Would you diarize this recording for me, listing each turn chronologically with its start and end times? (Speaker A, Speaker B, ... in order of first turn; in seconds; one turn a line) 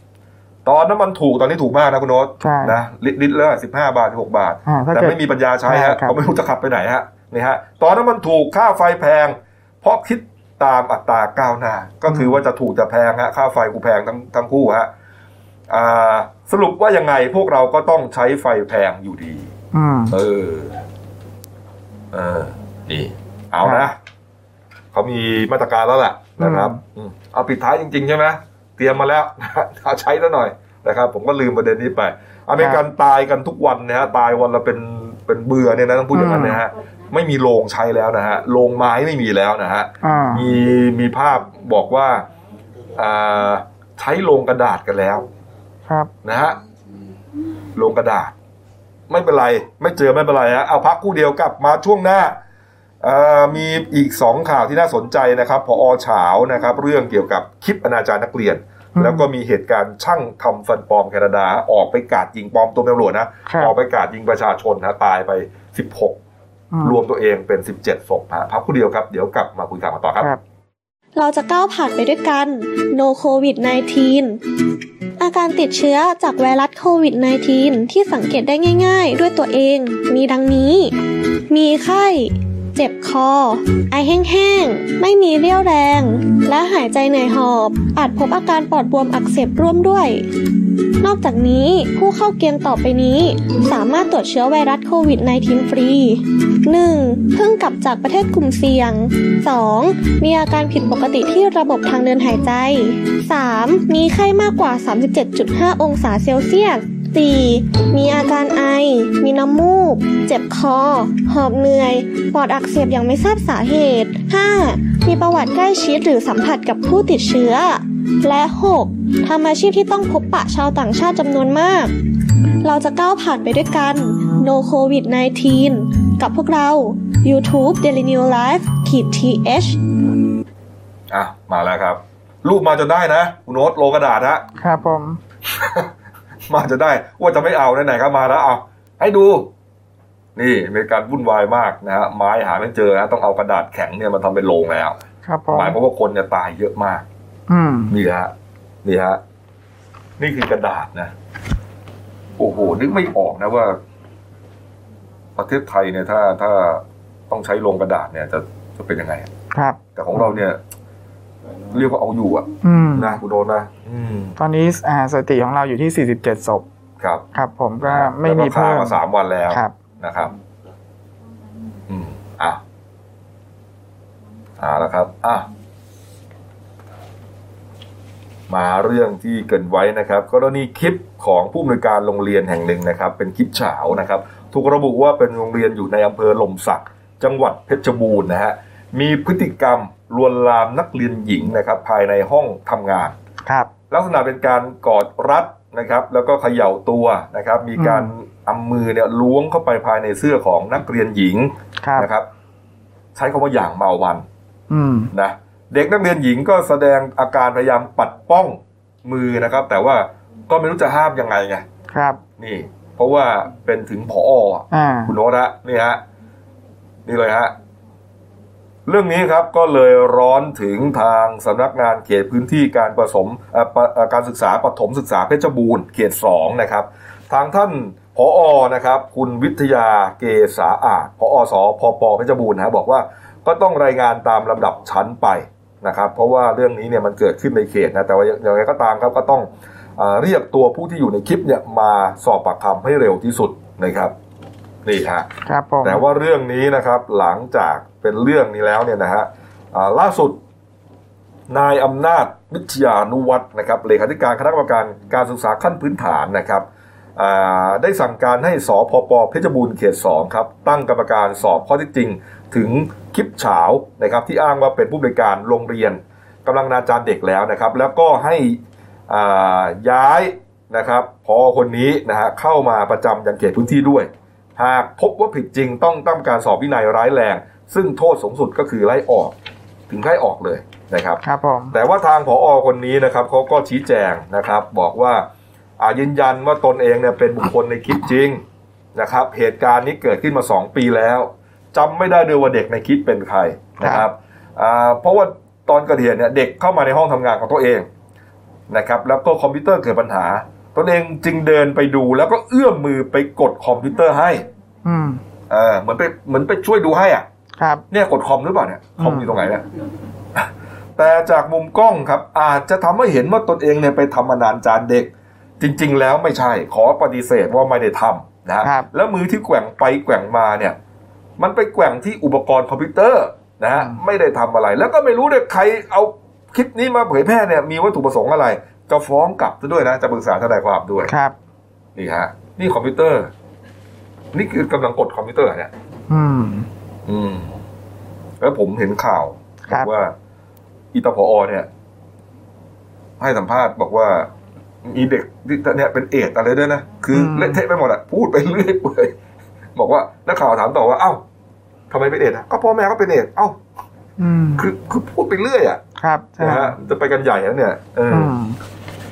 Speaker A: 0.7-14.9
Speaker B: 2.4-2.8
Speaker B: 4.7-6.2
Speaker B: 12.1-12.4
Speaker A: 15.7-19.5
Speaker B: 19.7-20.2
Speaker A: 20.1-20.8
Speaker A: 22.1-24.0
Speaker B: 23.6-23.9
Speaker A: 24.9-42.3
Speaker B: 26.4-26.8
Speaker B: 36.1-36.6
Speaker B: 40.0-40.5
Speaker A: 43.0-45.3
Speaker A: 46.2-46.6
Speaker A: 47.8-48.3
Speaker A: 49.1-52.4
Speaker A: 53.0-66.2
Speaker B: 59.0-59.3
Speaker B: 63.5-63.8
Speaker B: 66.7-67.0
Speaker A: 66.8-70.3
Speaker C: 71.2-74.4
Speaker C: 75.2-81.0
Speaker C: 81.5-90.3
Speaker C: 91.0-122.0
Speaker C: 122.6-129.8
Speaker A: 131.1-134.4
Speaker B: 134.6-135.2
Speaker A: 135.6-135.9
Speaker A: 136.5-139.5
Speaker A: 140.4-145.0
Speaker B: 145.2-145.8
Speaker A: 145.5-147.1
Speaker B: 147.5-147.9
Speaker A: 147.9-148.3
Speaker A: 148.8-149.2
Speaker A: 150.2-151.1
Speaker A: 152.4-153.8
Speaker A: 155.4-159.3
Speaker B: 159.5-160.4
Speaker A: 160.0-160.6
Speaker A: 161.7-164.4
Speaker B: 162.6-163.2
Speaker B: 164.4-166.7
Speaker A: 167.0-167.2
Speaker B: 167.3-169.0
Speaker A: 167.8-170.3
Speaker A: 171.9-172.6
Speaker A: 174.6-175.5
Speaker A: 178.5-193.2
Speaker B: 193.5-193.7
Speaker A: 193.9-202.3
Speaker B: 197.8-198.1
Speaker B: 201.8-202.1
Speaker A: 203.2-204.3
Speaker B: 204.7-205.1
Speaker A: 205.1-211.7
Speaker B: 211.9-212.2
Speaker A: 212.4-216.0
Speaker B: 214.7-215.1
Speaker A: 217.1-217.5
Speaker A: 218.9-244.1
Speaker A: 244.8-245.3
Speaker B: 245.4-246.0
Speaker A: 245.8-250.4
Speaker A: 251.5-279.4
Speaker A: 279.9-285.2
Speaker B: 281.2-281.7
Speaker A: 285.8-288.4
Speaker A: 288.9-297.9
Speaker B: 293.8-294.1
Speaker A: 298.7-304.5
Speaker B: 304.9-305.2
Speaker A: 305.5-307.3
Speaker B: 307.6-307.9
Speaker A: 307.9-309.6
Speaker B: 309.0-309.3
Speaker A: 310.4-320.8
Speaker B: 318.6-318.9
Speaker A: 321.4-331.1
Speaker B: 331.1-331.4
Speaker A: 332.0-333.3
Speaker A: 334.3-335.7
Speaker B: 336.1-336.7
Speaker A: 337.1-337.6
Speaker A: 338.4-340.1
Speaker B: 339.7-339.9
Speaker A: 340.9-341.7
Speaker A: 343.2-344.3
Speaker A: 344.8-349.2
Speaker B: 347.1-347.6
Speaker A: 349.8-351.2
Speaker A: 351.9-353.6
Speaker B: 354.2-354.7
Speaker A: 354.6-355.8
Speaker B: 356.0-356.8
Speaker A: 356.4-358.3
Speaker B: 358.1-358.6